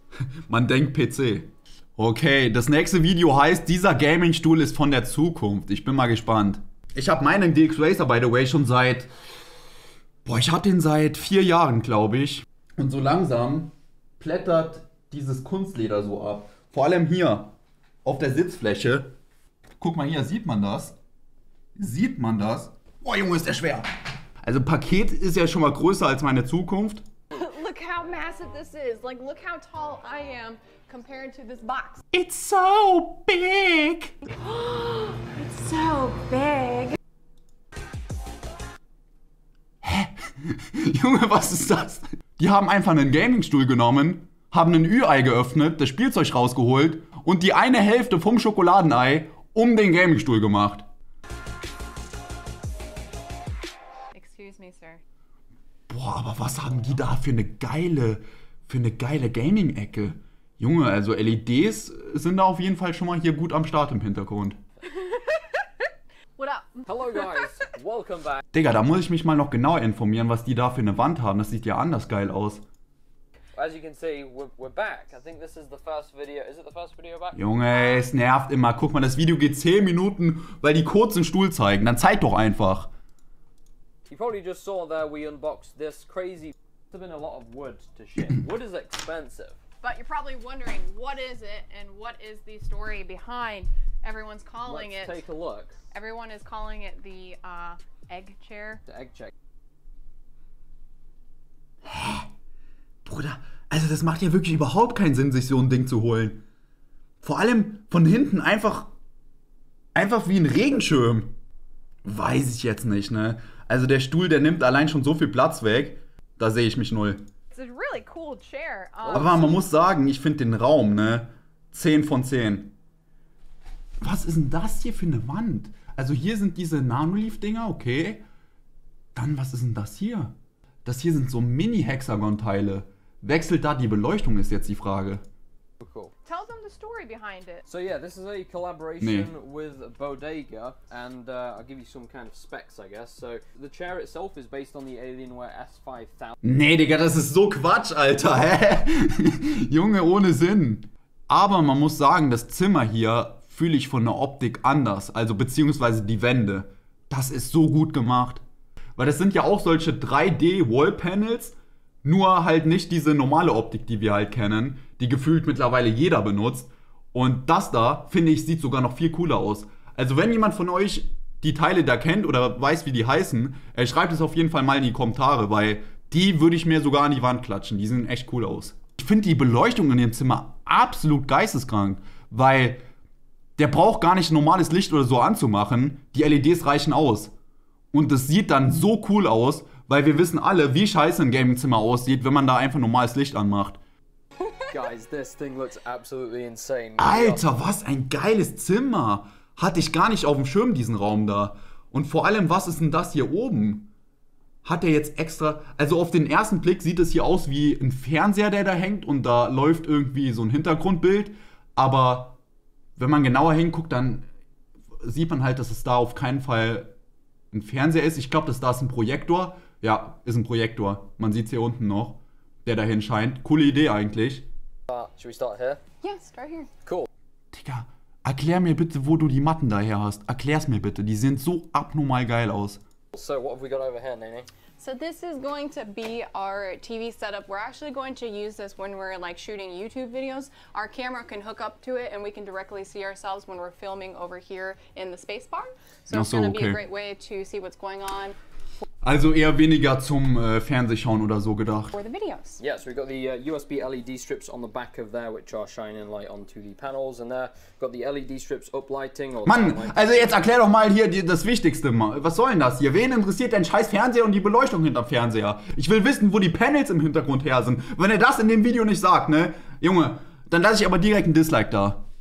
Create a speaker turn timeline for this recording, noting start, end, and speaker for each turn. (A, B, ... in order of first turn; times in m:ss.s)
0:00.5-0:09.1 A
0:10.2-0:17.5 A
0:18.0-0:19.1 A
0:19.8-0:21.0 A
0:21.8-0:23.9 A
0:24.4-0:27.0 A
0:27.3-0:32.0 B
0:32.1-0:34.2 A
0:34.4-0:37.0 B
0:39.8-0:50.8 A
0:54.1-0:55.0 B
0:55.9-1:04.6 A
1:04.9-1:05.7 B
1:06.4-1:07.3 B
1:06.9-1:08.4 C
1:08.5-1:12.6 A
1:13.5-1:17.4 C
1:17.3-1:22.9 A
1:24.1-1:29.6 C
1:29.8-1:35.2 B
1:34.6-1:35.8 C
1:35.9-1:38.8 B
1:38.8-1:39.3 C
1:41.8-1:42.3 A
1:43.0-1:46.4 A
1:47.2-1:48.9 A
1:49.9-1:51.3 A
1:52.0-1:57.2 A
1:57.5-1:59.6 B
1:59.1-2:02.7 A
2:04.0-2:08.2 A
2:09.1-2:10.3 A
2:10.8-2:15.2 A
2:15.8-2:16.1 C
2:16.2-2:17.6 B
2:17.6-2:26.3 C
2:19.0-2:19.3 A
2:26.4-2:38.4 A
2:39.0-3:02.8 A
3:03.6-3:07.3 A
3:07.9-3:13.8 A
3:14.7-3:17.4 C
3:17.0-3:23.9 A
3:24.6-3:32.4 A
3:33.0-3:34.2 A
3:35.0-3:36.9 A
3:37.5-3:44.4 A
3:44.9-3:45.8 C
3:46.0-3:46.7 B
3:47.5-3:52.8 A
3:53.1-3:54.5 C
3:54.8-4:08.4 B
4:06.1-4:06.8 A
4:09.0-4:11.9 A
4:11.9-4:12.6 B
4:12.6-4:20.4 C
4:19.5-4:32.0 A